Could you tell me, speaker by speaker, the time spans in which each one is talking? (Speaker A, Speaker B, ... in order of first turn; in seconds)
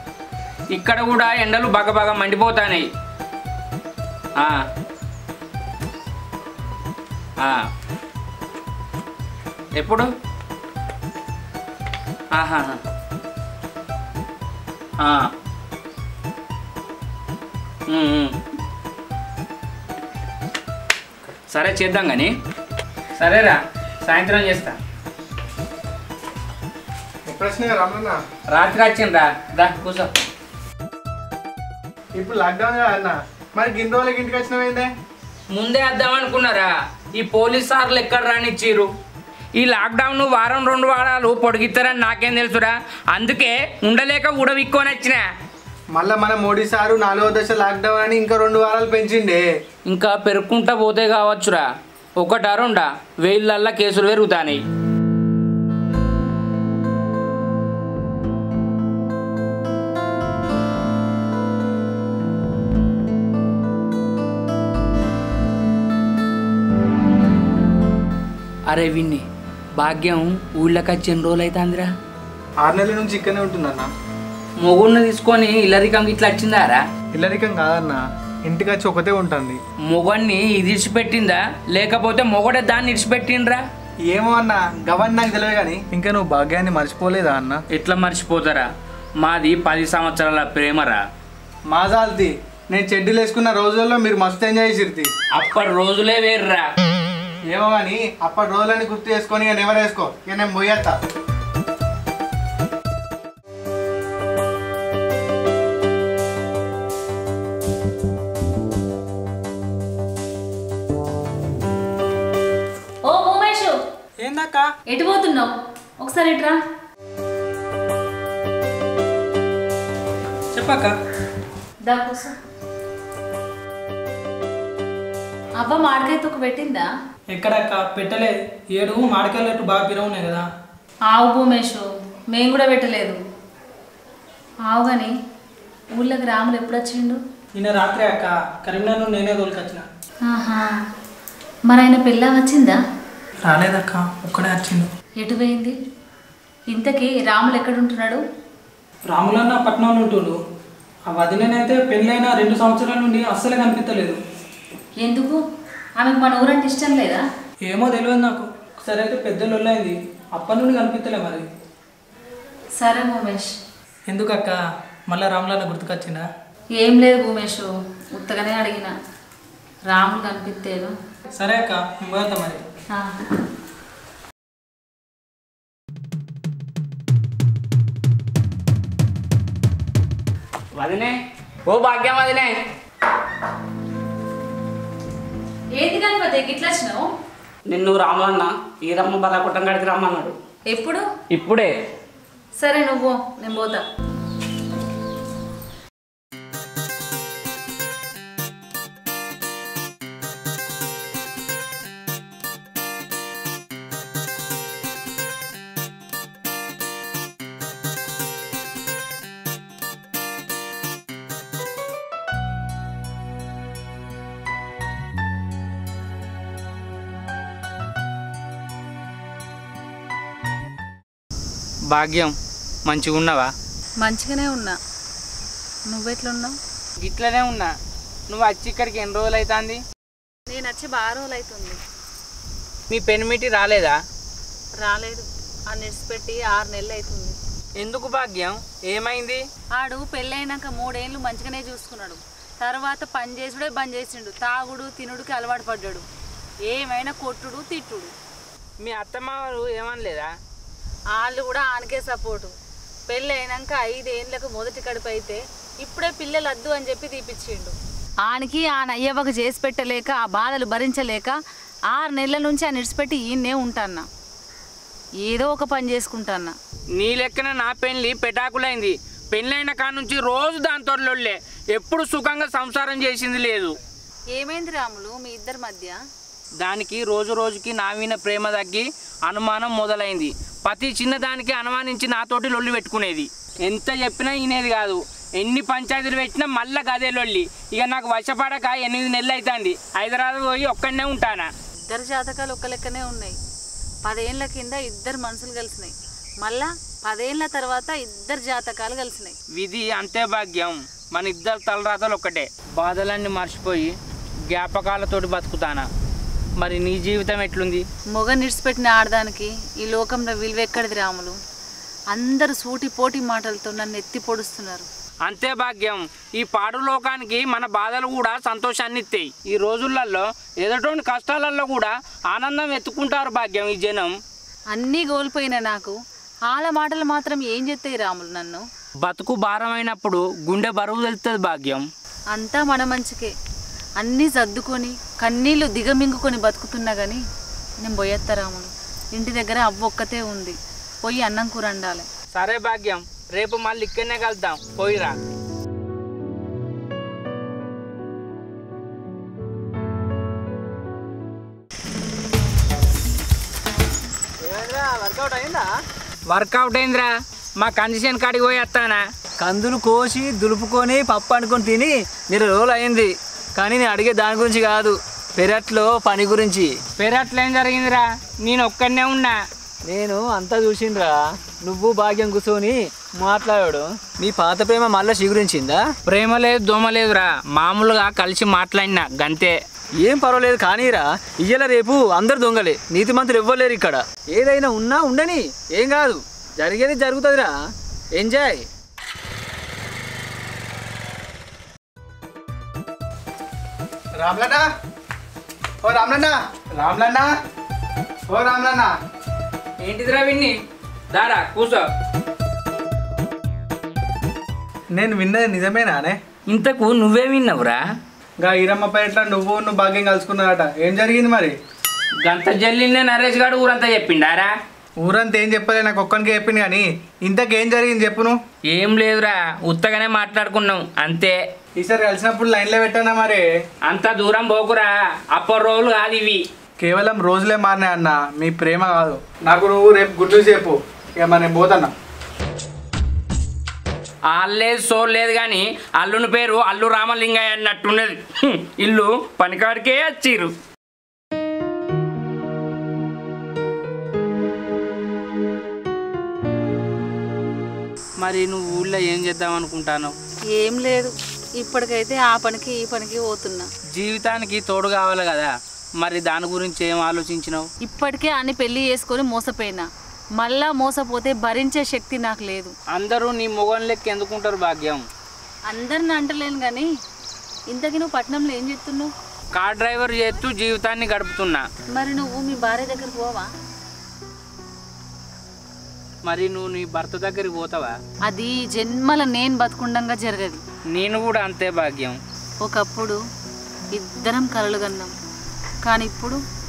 Speaker A: 0.7-2.9, 7.4-7.6, 9.7-10.1, 12.3-12.8, 15.0-15.3, 17.9-18.4, 21.5-22.3, 23.2-24.8, 28.5-30.1, 35.5-38.9, 39.5-45.2, 49.9-51.6, 52.2-54.6, 68.7-69.2, 69.8-71.9, 74.6-76.8, 79.8-83.6, 87.7-88.7, 89.2-91.0, 95.3-96.7, 180.8-182.5, 187.7-190.3, 191.3-191.7, 221.9-222.3, 222.8-223.5, 227.0-227.7, 228.3-229.8, 232.9-233.9, 237.8-239.4, 248.8-250.3, 267.0-273.8, 276.6-291.5, 299.5-303.9, 304.5-305.9, 306.6-307.9, 315.2-324.1, 329.0-331.9, 342.3-345.2, 356.3-359.0, 367.0-369.4, 376.1-379.6, 399.8-400.6, 401.1-401.9, 406.5-407.8, 412.2-414.5, 418.7-421.4, 423.9-426.4, 434.3-440.5, 448.2-450.1, 453.9-457.7, 462.9-465.0, 469.5-471.6, 476.2-477.9, 480.9-482.2
Speaker B: 27.3-28.2, 32.1-34.9, 45.9-49.4, 72.6-73.9, 77.1-79.6, 84.1-87.6, 91.7-95.1, 97.5-101.0, 394.2-394.7, 395.8-397.3, 398.3-398.9, 404.9-406.2, 408.4-411.5, 415.0-418.4, 421.8-423.4, 426.8-431.9
Speaker C: 113.0-113.8, 114.9-116.6, 121.8-122.3, 125.6-126.9, 131.1-133.2, 134.7-135.1, 135.9-137.2, 140.2-140.7, 141.7-142.8, 145.2-145.8, 146.7-148.2, 155.0-155.4, 156.0-157.2, 162.8-163.5, 166.7-168.9, 169.9-170.9, 172.9-173.3, 185.7-187.1, 190.7-191.1, 192.6-193.8, 224.0-224.8, 225.9-226.6, 230.5-231.8, 234.8-237.4, 239.8-246.0, 246.7-248.1, 251.2-252.5, 253.1-261.4, 261.9-264.1, 265.2-266.6, 274.3-276.0, 291.9-293.4, 294.0-299.4, 308.1-311.4, 312.1-314.9, 324.7-328.6, 332.3-333.3, 334.0-337.2, 337.8-342.1, 450.5-453.7, 457.8-462.7, 465.7-466.9, 467.7-469.1, 471.9-473.5, 478.2-480.6, 482.6-483.2, 483.9-485.1, 485.8-486.4
Speaker D: 114.2-114.7, 120.5-120.9, 127.3-130.4, 137.6-139.8, 143.5-144.8, 149.1-150.3, 151.1-154.2, 157.7-161.5, 164.1-164.6, 165.1-166.2, 171.3-172.6
Speaker E: 354.4-355.7, 359.4-366.8, 369.8-375.9, 380.0-387.6, 388.1-388.7